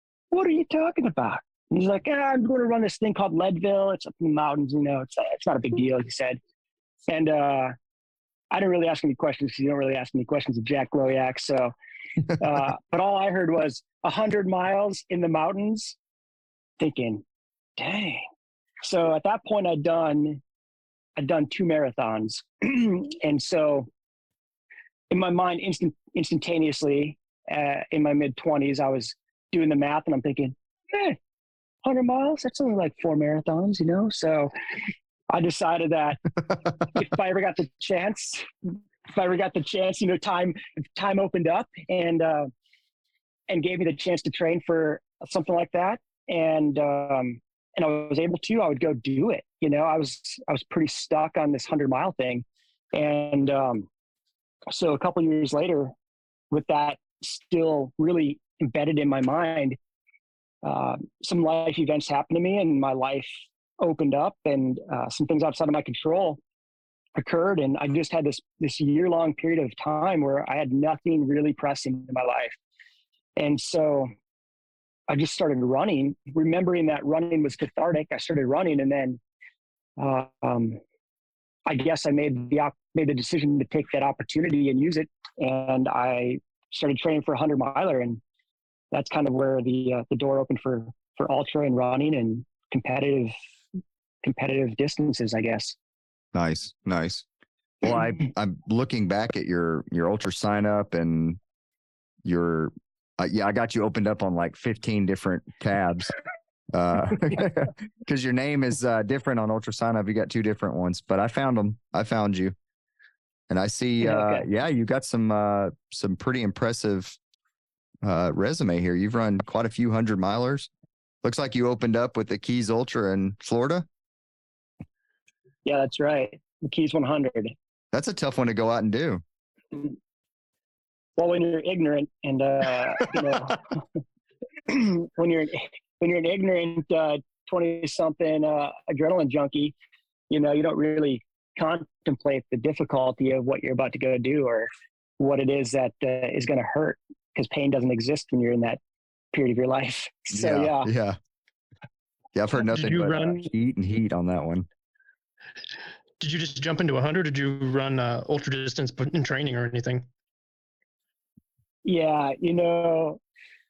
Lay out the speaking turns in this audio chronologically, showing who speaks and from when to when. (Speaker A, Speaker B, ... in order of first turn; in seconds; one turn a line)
Speaker A: 0.3-6.4
Speaker A: 7.1-7.7
Speaker A: 8.5-11.7
Speaker A: 12.4-16.0
Speaker A: 16.8-17.2
Speaker A: 17.8-18.2
Speaker A: 18.8-20.4
Speaker A: 21.2-23.9
Speaker A: 25.1-31.2
Speaker A: 31.8-34.5
Speaker A: 35.3-36.2
Speaker A: 36.9-42.5
Speaker A: 43.5-53.9
Speaker A: 54.7-55.9
Speaker A: 56.5-59.8
Speaker A: 60.6-66.4
Speaker A: 67.1-72.5
Speaker A: 73.4-74.1
Speaker A: 75.1-79.2
Speaker A: 80.0-80.8
Speaker A: 81.7-88.2
Speaker A: 88.9-93.3
Speaker A: 94.2-95.8
Speaker B: 96.3-97.2
Speaker B: 97.8-101.4
Speaker B: 102.2-106.1
Speaker B: 106.7-112.5
Speaker B: 113.5-117.2
Speaker A: 114.0-114.4
Speaker B: 118.0-120.7
Speaker B: 121.2-123.9
Speaker A: 125.6-127.5
Speaker B: 127.9-129.2
Speaker A: 131.2-133.7
Speaker A: 134.7-139.7
Speaker A: 140.3-148.8
Speaker A: 149.3-150.9
Speaker B: 150.3-151.2
Speaker B: 152.3-154.7
Speaker C: 152.5-153.5
Speaker C: 156.2-160.0
Speaker A: 161.8-163.2